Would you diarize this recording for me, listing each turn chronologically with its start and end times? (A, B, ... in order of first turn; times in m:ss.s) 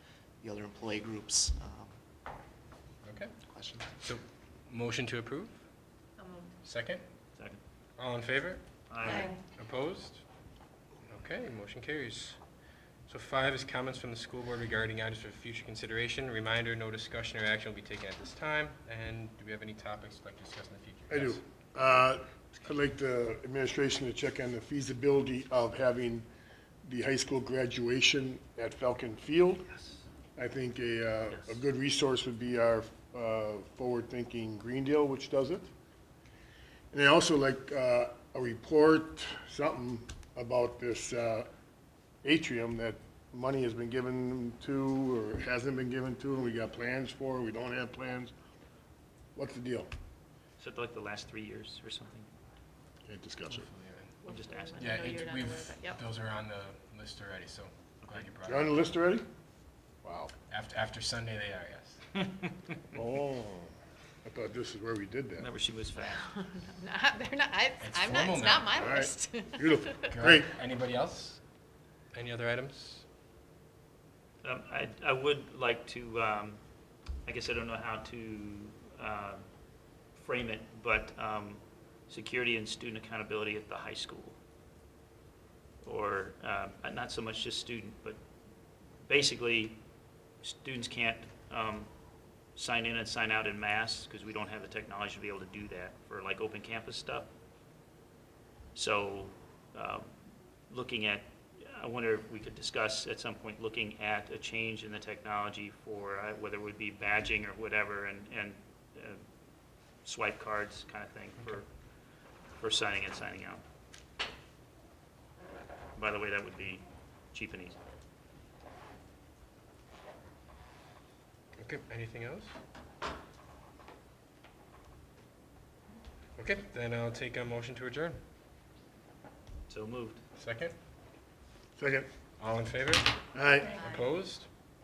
0:00.4-0:02.0 A
0:03.0-0:03.4 B
0:03.4-0:04.0 A
0:04.0-0:05.6 B
0:06.2-0:06.5 C
0:06.6-0:07.0 B
0:07.4-0:07.6 D
0:08.0-0:10.2 B
0:08.9-0:09.4 D
0:09.1-0:09.4 C
0:11.1-0:12.4 B
0:13.1-0:21.4 B
0:21.1-0:26.3 E
0:26.8-0:29.7 E
0:29.7-0:30.0 D
0:30.4-0:35.7 E
0:31.3-0:31.6 D
0:36.9-0:41.5 E
0:42.2-0:48.3 E
0:49.4-0:49.9 E
0:50.6-0:52.3 D
0:53.1-0:53.7 E
0:53.5-0:54.1 B
0:54.2-0:56.0 C
0:54.3-0:55.0 D
0:54.8-0:58.8 B
0:58.5-0:59.3 E
1:00.0-1:00.3 E
1:00.5-1:02.0 B
1:02.9-1:03.7 E
1:04.2-1:05.5 E
1:05.4-1:06.3 D
1:06.2-1:10.2 C
1:07.8-1:09.0 B
1:08.7-1:10.5 E
1:10.1-1:11.4 B
1:12.1-1:13.0 B
1:14.4-1:16.6 D
1:17.3-1:19.4 D
1:20.2-1:24.4 D
1:25.8-1:28.2 D
1:29.0-1:29.8 D
1:30.4-1:31.9 D
1:32.6-1:37.3 D
1:38.8-1:40.1 D
1:40.7-1:49.2 D
1:50.0-1:51.7 D
1:52.6-1:53.6 D
1:56.0-1:57.8 D
2:01.6-2:02.5 B
2:06.4-2:08.2 B
2:09.7-2:10.2 D
2:10.4-2:10.8 B
2:11.8-2:12.1 E
2:12.4-2:13.1 B
2:13.3-2:13.8 E
2:13.8-2:14.0 C
2:13.8-2:14.5 B